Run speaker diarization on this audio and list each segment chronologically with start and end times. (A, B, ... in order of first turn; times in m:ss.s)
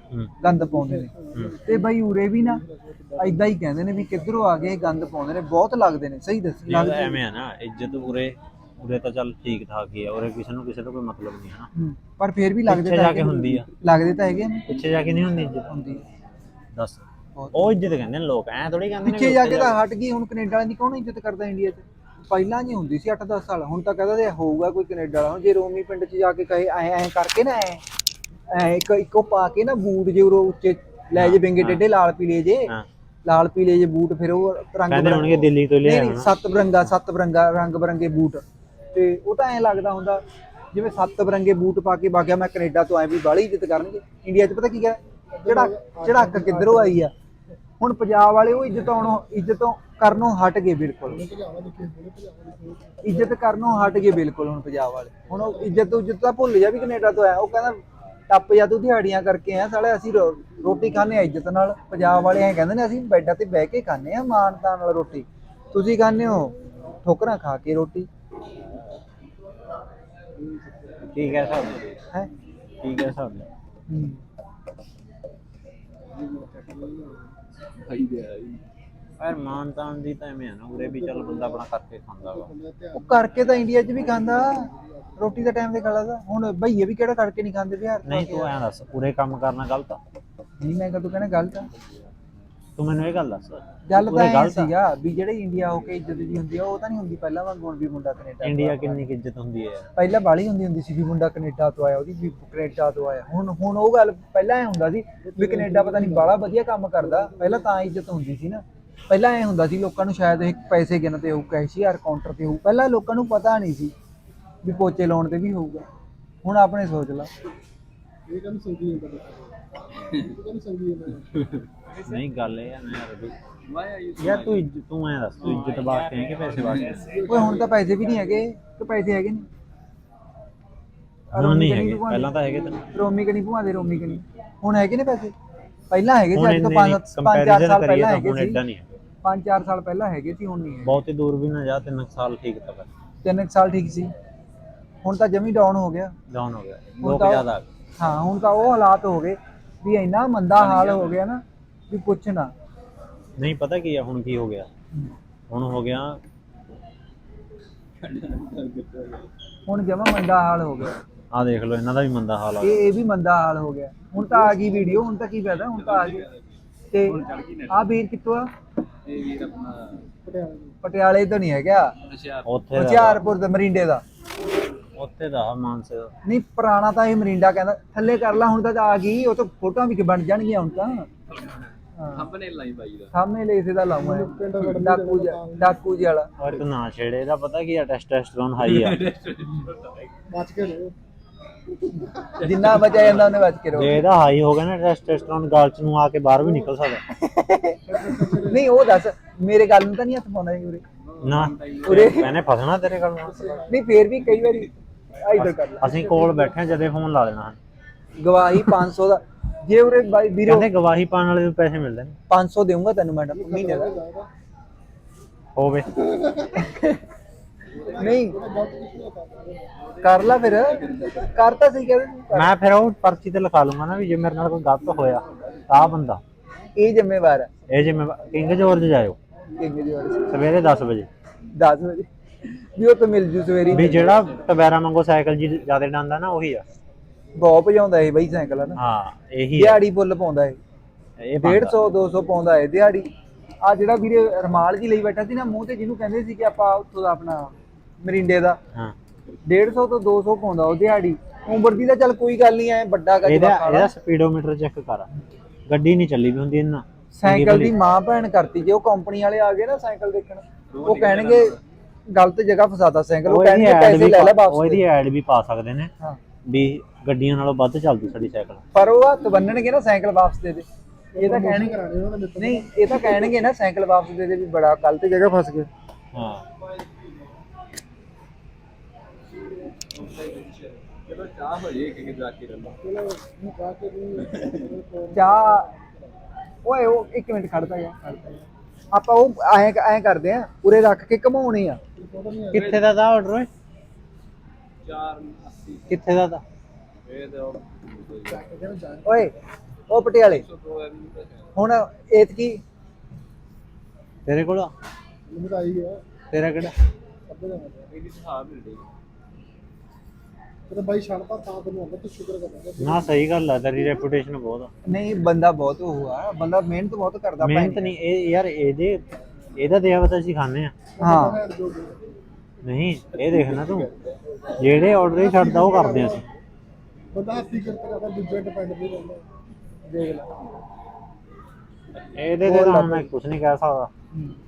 0:00.4-0:02.6 A
0:01.0-0:01.8 B
0:02.5-0:03.3 B
0:03.2-0:07.2 A
0:06.7-0:11.7 C
0:11.8-0:14.7 A
0:12.7-0:13.7 C
0:14.7-0:15.7 C
0:15.7-0:16.0 A
0:16.8-0:19.8 C
0:17.4-0:17.6 A
0:19.0-0:27.8 A
0:28.5-0:32.7 A
0:31.2-0:31.8 C
0:33.2-0:40.2 A
0:34.9-0:36.3 C
0:40.7-0:47.1 A
0:45.3-0:47.0 B
0:47.8-0:51.2 A
0:51.1-0:53.3 B
0:53.0-1:08.1 A
0:55.3-0:56.0 B
1:11.1-1:11.8 C
1:11.2-1:12.0 D
1:12.8-1:13.5 C
1:13.9-1:14.2 A
1:16.2-1:16.8 B
1:16.3-1:17.1 D
1:17.8-1:18.6 D
1:19.2-1:22.5 C
1:20.8-1:21.6 B
1:22.2-1:23.3 B
1:22.9-1:28.5 A
1:24.0-1:25.2 B
1:28.1-1:30.0 C
1:30.6-1:31.7 A
1:32.8-1:34.7 C
1:33.9-1:39.0 A
1:38.4-1:39.9 C
1:40.0-1:53.9 A
1:45.2-1:46.4 B
1:47.2-1:47.6 B
1:54.6-1:55.9 A
1:56.4-1:57.3 A
1:58.3-1:59.5 B
2:00.1-2:01.3 B
2:02.0-2:03.4 C
2:03.7-2:04.6 D
2:04.2-2:07.0 C
2:05.5-2:07.5 D
2:06.9-2:08.4 B
2:07.2-2:09.5 A
2:11.3-2:15.3 A
2:11.3-2:12.8 C
2:15.9-2:18.6 A
2:16.3-2:19.0 C
2:19.2-2:20.9 A
2:20.8-2:22.9 C
2:23.2-2:24.1 A
2:25.0-2:26.1 A
2:26.3-2:27.6 C
2:27.0-2:27.5 A
2:28.0-2:32.5 A
2:30.7-2:31.1 D
2:33.4-2:34.7 C
2:35.5-2:36.2 C
2:38.0-2:39.3 D
2:39.7-2:41.0 A
2:41.3-2:42.8 C
2:42.6-2:46.3 A
2:44.2-2:45.1 B
2:45.7-2:46.4 D
2:46.9-2:48.5 A
2:47.0-2:47.8 D
2:49.0-2:50.1 D
2:50.2-2:50.8 B
2:50.8-2:51.9 A
2:52.0-2:52.5 D
2:52.4-2:53.3 C
2:52.7-2:54.0 A
2:55.0-2:56.1 C
2:56.2-3:01.1 A
3:02.0-3:02.3 A
3:02.1-3:03.1 D
3:03.1-3:06.3 A
3:04.0-3:05.9 B
3:06.4-3:09.0 C
3:08.6-3:10.1 D
3:10.3-3:11.0 B
3:12.0-3:12.4 B
3:12.4-3:14.0 A
3:12.4-3:13.3 D
3:13.7-3:17.0 C
3:17.2-3:20.8 A
3:17.8-3:18.6 B
3:21.1-3:22.2 D
3:21.2-3:23.5 C
3:21.9-3:22.4 A
3:23.2-3:23.8 B
3:23.7-3:26.0 A
3:25.4-3:27.6 C
3:28.2-3:30.7 A
3:30.5-3:32.2 C
3:32.3-3:33.9 A
3:33.3-3:34.3 B
3:35.6-3:36.1 C
3:36.5-3:37.0 A
3:37.8-3:39.7 B
3:38.0-3:38.4 A
3:40.0-3:42.5 A
3:40.2-3:41.2 D
3:42.3-3:46.2 C
3:46.8-3:47.5 A
3:47.7-3:49.2 C
3:49.6-3:50.3 A
3:50.3-3:51.1 C
3:51.6-3:52.1 A
3:52.6-3:54.2 A
3:53.7-3:56.6 C
3:57.4-3:58.8 A
3:58.8-3:59.8 C
3:59.5-4:00.6 A
4:01.2-4:01.8 C
4:01.4-4:03.1 A
4:03.6-4:08.6 A
4:09.5-4:13.9 A
4:13.2-4:15.1 C
4:15.7-4:17.8 C
4:17.2-4:21.6 A
4:20.7-4:21.6 D
4:22.1-4:24.8 A
4:23.3-4:25.9 C
4:26.5-4:28.6 C
4:28.7-4:30.6 A
4:31.1-4:33.3 B
4:31.2-4:31.8 A
4:32.4-4:35.7 A
4:36.1-4:36.4 C
4:40.0-4:42.8 D
4:42.8-4:46.1 B
4:45.1-4:45.7 A
4:46.6-4:51.8 A
4:52.0-4:52.8 B
4:52.5-4:53.5 C
4:52.5-4:52.8 D
4:54.8-4:55.9 D
4:55.9-4:56.4 C
4:57.1-4:58.4 D
4:58.2-4:59.3 B
4:59.0-4:59.3 A
4:59.9-5:00.5 A
5:00.3-5:01.5 D
5:01.6-5:02.6 A
5:04.3-5:04.7 C
5:05.3-5:06.0 B
5:06.3-5:06.7 C
5:07.3-5:07.9 B
5:07.9-5:08.9 D
5:10.7-5:13.1 B
5:12.8-5:14.7 C
5:14.9-5:17.9 A
5:17.4-5:19.0 C
5:19.6-5:20.7 C
5:21.0-5:22.1 B
5:21.0-5:21.4 A
5:22.6-5:23.9 C
5:24.6-5:26.2 C
5:25.0-5:26.3 B
5:27.1-5:29.2 B
5:29.9-5:30.3 A
5:32.2-5:33.9 C
5:32.4-5:33.1 A